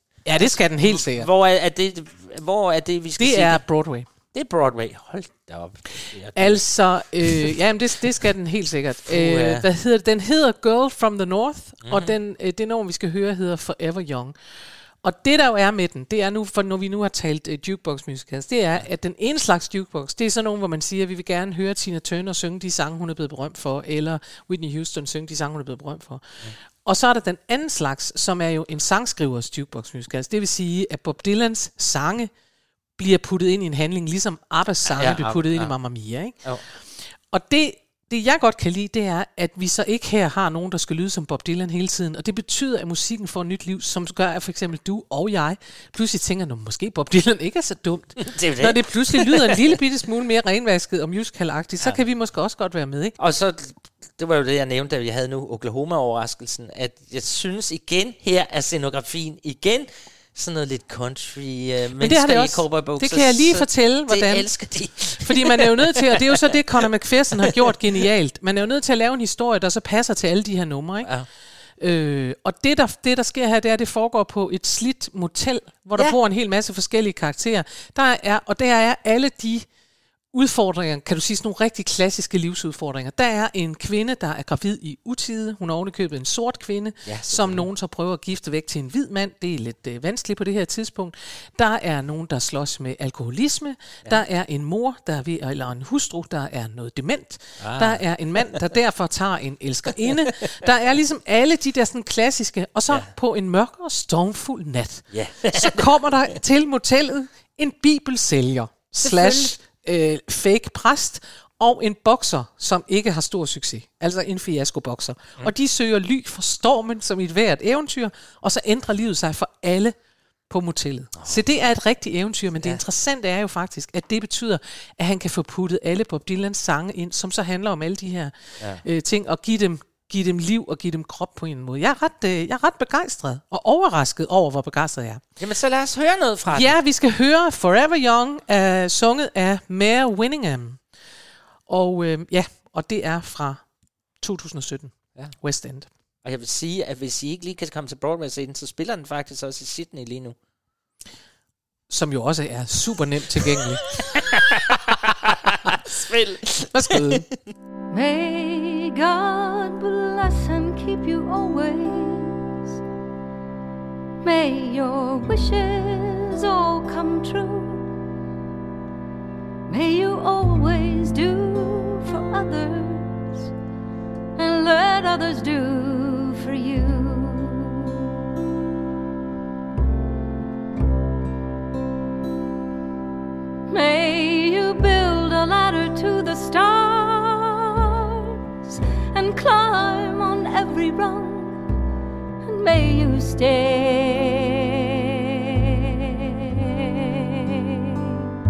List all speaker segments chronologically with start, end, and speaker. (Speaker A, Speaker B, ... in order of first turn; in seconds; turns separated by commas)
Speaker A: 0.3-1.3, Speaker B: 0.8-3.6, Speaker A: 3.2-4.1, Speaker B: 4.3-6.6, Speaker A: 6.4-14.3, Speaker B: 7.3-7.5, Speaker B: 9.0-9.7, Speaker B: 11.8-12.1, Speaker A: 15.0-26.3, Speaker A: 26.9-32.3, Speaker A: 33.0-36.4, Speaker B: 34.9-35.7, Speaker A: 37.3-53.1, Speaker B: 48.2-49.7, Speaker B: 53.2-66.6, Speaker A: 62.0-64.5, Speaker A: 65.2-71.1, Speaker B: 67.4-67.7, Speaker A: 71.8-79.7, Speaker A: 80.3-120.0, Speaker B: 87.1-87.7, Speaker B: 97.6-98.0, Speaker B: 105.1-106.0, Speaker B: 109.0-109.6, Speaker A: 120.5-135.2, Speaker B: 135.4-136.8, Speaker A: 136.5-140.8, Speaker A: 141.7-143.6, Speaker A: 144.2-145.9, Speaker B: 146.2-150.4, Speaker A: 151.9-153.9, Speaker B: 154.1-157.2, Speaker A: 156.7-157.3, Speaker C: 157.9-162.5, Speaker C: 164.2-167.9, Speaker C: 169.7-173.5, Speaker C: 174.4-178.0, Speaker C: 183.7-191.6, Speaker C: 192.4-196.9